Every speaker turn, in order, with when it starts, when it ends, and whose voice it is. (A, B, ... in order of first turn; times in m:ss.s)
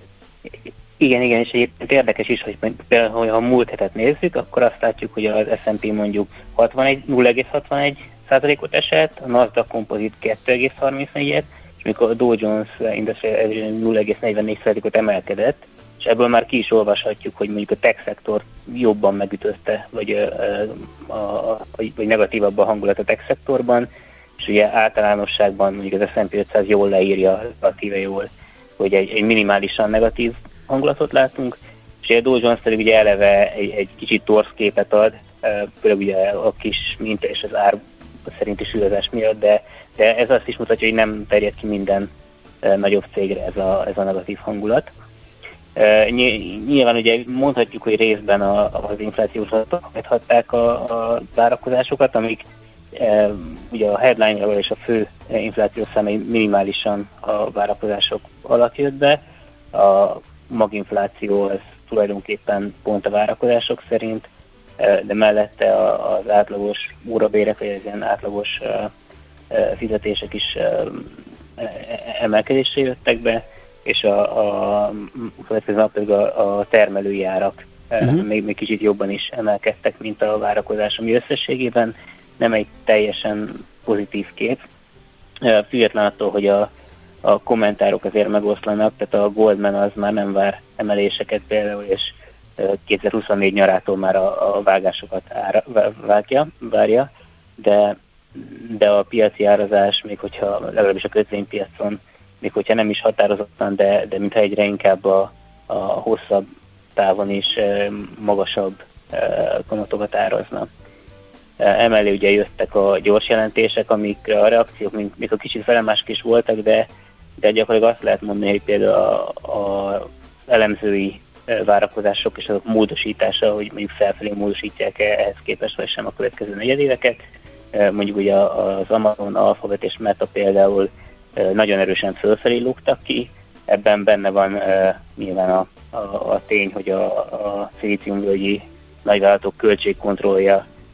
0:01.0-0:23.9 A
0:24.4-0:42.1 A
0:42.6-0:44.9 A
0:45.8-0:59.2 A
0:59.7-1:04.3 A
1:04.8-1:08.9 A
1:09.5-1:24.6 A
1:25.4-1:26.7 A
1:27.2-1:50.7 A
1:51.6-1:56.9 A
1:57.4-2:20.6 A